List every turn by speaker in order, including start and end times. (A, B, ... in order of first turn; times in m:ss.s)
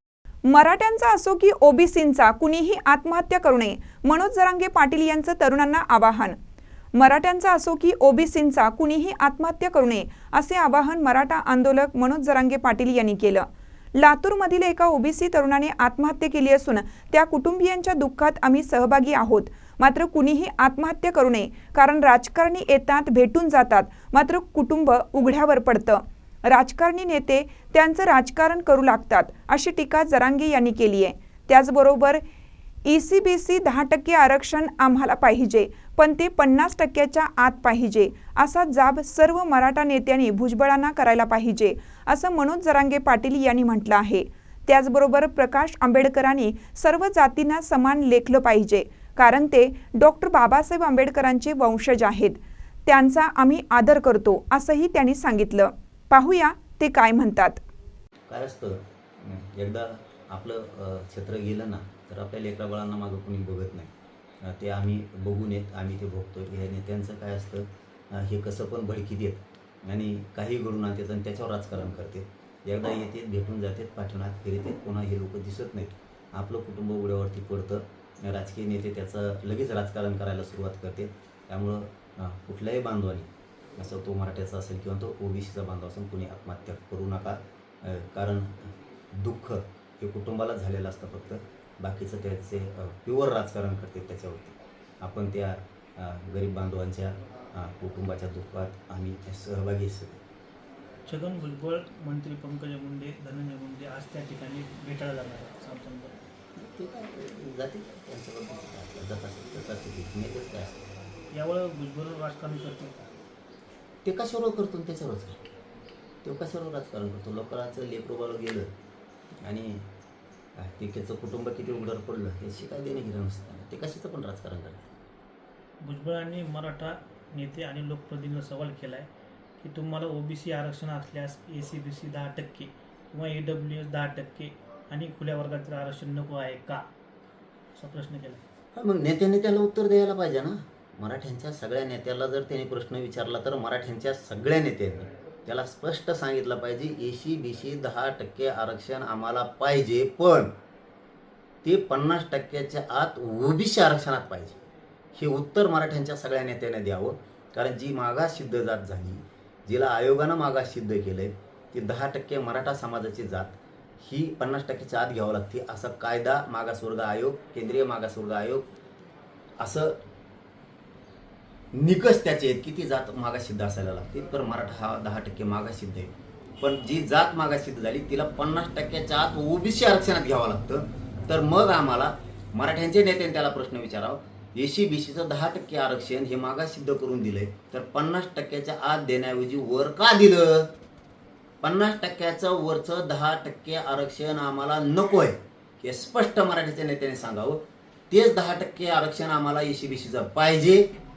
0:00.5-0:06.4 A
0:06.9-0:32.2 A
0:32.9-0:57.6 A
0:58.3-1:03.9 B
1:04.4-1:40.2 B
1:41.1-1:46.2 C
1:46.6-1:50.9 B
1:51.3-1:53.0 C
1:54.0-1:55.4 B
1:56.2-1:58.7 B
1:59.4-1:59.9 B
2:00.6-2:04.9 B
2:05.8-2:09.1 C
2:09.6-2:16.8 C
2:17.8-2:18.4 C
2:18.7-2:30.5 B
2:31.6-2:34.6 B
2:35.1-2:48.7 B
2:49.6-2:50.0 B
2:51.7-3:10.7 B
3:11.6-3:20.9 B